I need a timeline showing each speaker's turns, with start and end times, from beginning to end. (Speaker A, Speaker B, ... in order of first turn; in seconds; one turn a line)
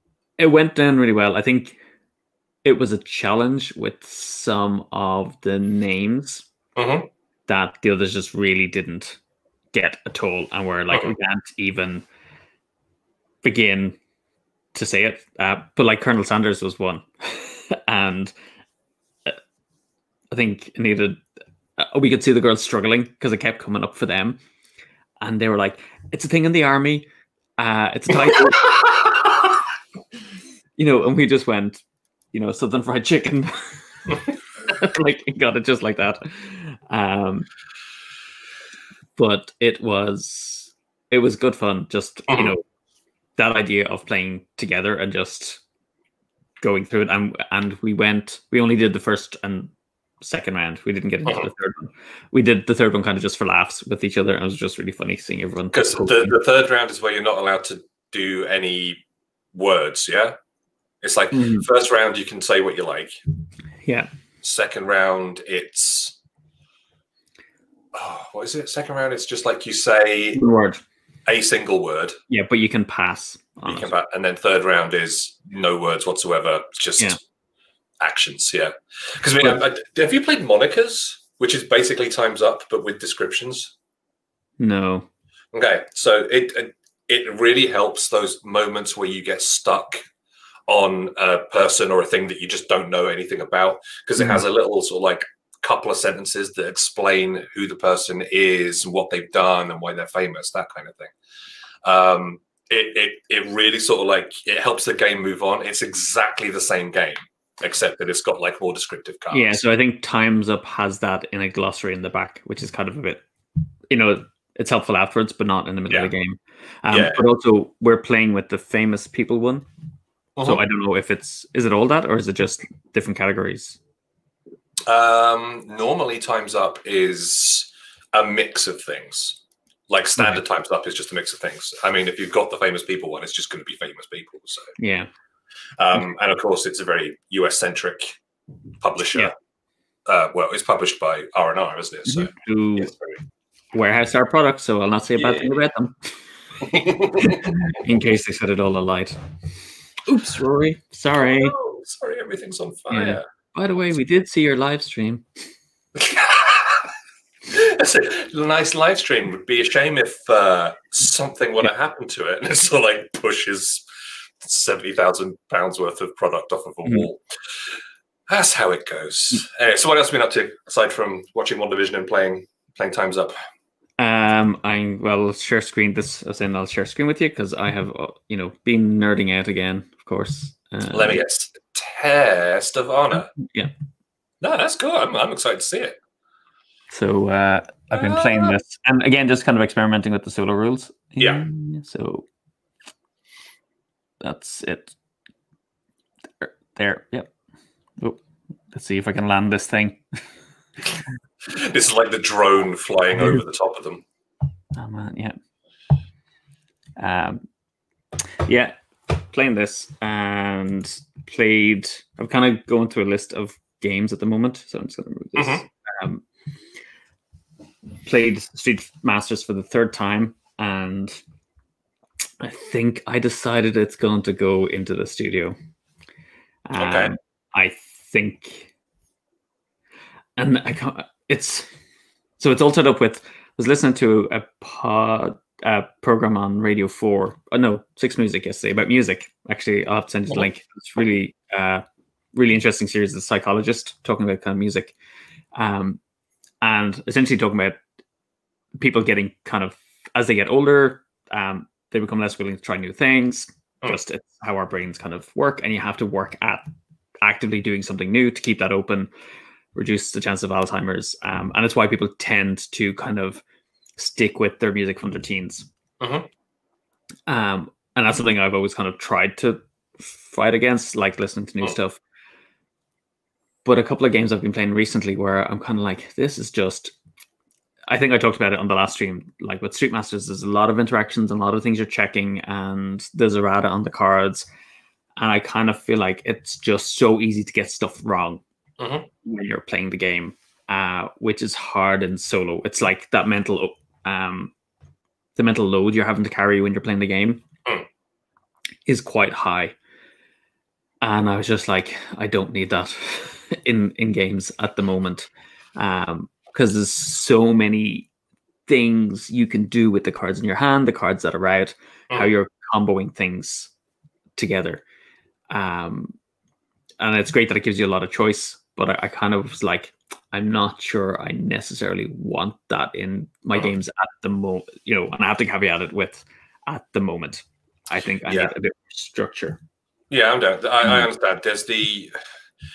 Speaker A: 0.4-1.8
Speaker A: 2.6-6.5
Speaker B: 6.8-7.1
Speaker A: 7.5-9.2
Speaker A: 9.7-12.0
Speaker A: 13.4-14.0
Speaker A: 14.7-18.3
Speaker A: 20.3-21.2
Speaker A: 21.8-24.4
Speaker A: 25.2-28.8
Speaker B: 28.2-29.4
Speaker A: 30.8-37.5
Speaker A: 39.1-42.6
Speaker B: 42.3-42.5
Speaker A: 43.4-45.6
Speaker A: 46.6-56.3
Speaker B: 55.7-59.0
Speaker B: 59.5-60.4
Speaker B: 61.0-63.2
Speaker A: 61.3-61.6
Speaker A: 63.8-64.1
Speaker B: 64.4-66.2
Speaker B: 67.9-70.4
Speaker A: 70.3-70.8
Speaker B: 71.3-72.2
Speaker A: 72.3-73.9
Speaker B: 73.7-77.2
Speaker B: 78.0-83.7
Speaker A: 84.6-85.1
Speaker B: 85.5-90.0
Speaker B: 90.7-101.1
Speaker A: 94.2-94.4
Speaker B: 101.8-109.6
Speaker A: 109.3-113.2
Speaker A: 113.9-119.7
Speaker B: 116.9-117.2
Speaker B: 120.3-120.6
Speaker A: 120.4-123.8
Speaker B: 124.9-134.7
Speaker A: 134.8-135.1
Speaker B: 135.8-138.2
Speaker B: 138.8-139.3
Speaker B: 140.1-143.2
Speaker A: 142.1-142.9
Speaker A: 143.7-146.2
Speaker B: 145.2-145.5
Speaker B: 146.6-147.4
Speaker A: 147.2-149.2
Speaker A: 150.1-151.5
Speaker B: 151.2-153.2
Speaker A: 152.9-155.4
Speaker B: 155.9-156.8
Speaker B: 157.5-163.8
Speaker B: 164.4-167.7
Speaker B: 168.3-173.3
Speaker A: 174.0-181.2
Speaker B: 180.9-183.3
Speaker A: 183.1-183.7
Speaker B: 184.4-186.0
Speaker A: 186.9-192.3
Speaker B: 187.9-188.6
Speaker B: 191.2-191.4
Speaker A: 194.2-194.9
Speaker A: 196.4-197.3
Speaker A: 198.0-200.2
Speaker B: 201.5-204.0
Speaker A: 203.2-203.4
Speaker A: 204.7-205.3
Speaker A: 207.0-207.4
Speaker A: 208.4-216.2
Speaker B: 215.3-215.6
Speaker A: 218.0-221.2
Speaker A: 222.4-225.6
Speaker A: 226.7-228.7
Speaker B: 226.8-227.1
Speaker A: 230.4-231.7
Speaker A: 232.4-244.9
Speaker A: 245.5-246.0
Speaker A: 246.6-247.8
Speaker A: 248.8-256.6
Speaker A: 257.2-259.1
Speaker A: 259.7-263.4
Speaker A: 264.0-265.7
Speaker B: 266.0-266.3
Speaker A: 267.3-272.0
Speaker A: 273.6-276.9
Speaker A: 277.9-284.4
Speaker A: 285.2-288.4
Speaker B: 288.8-289.1
Speaker A: 289.2-294.5
Speaker A: 295.4-297.4
Speaker A: 298.9-299.7
Speaker A: 301.0-308.1
Speaker A: 308.7-313.7
Speaker A: 314.4-314.8
Speaker A: 315.5-316.1
Speaker A: 317.0-329.6
Speaker B: 328.3-328.5
Speaker B: 330.1-332.1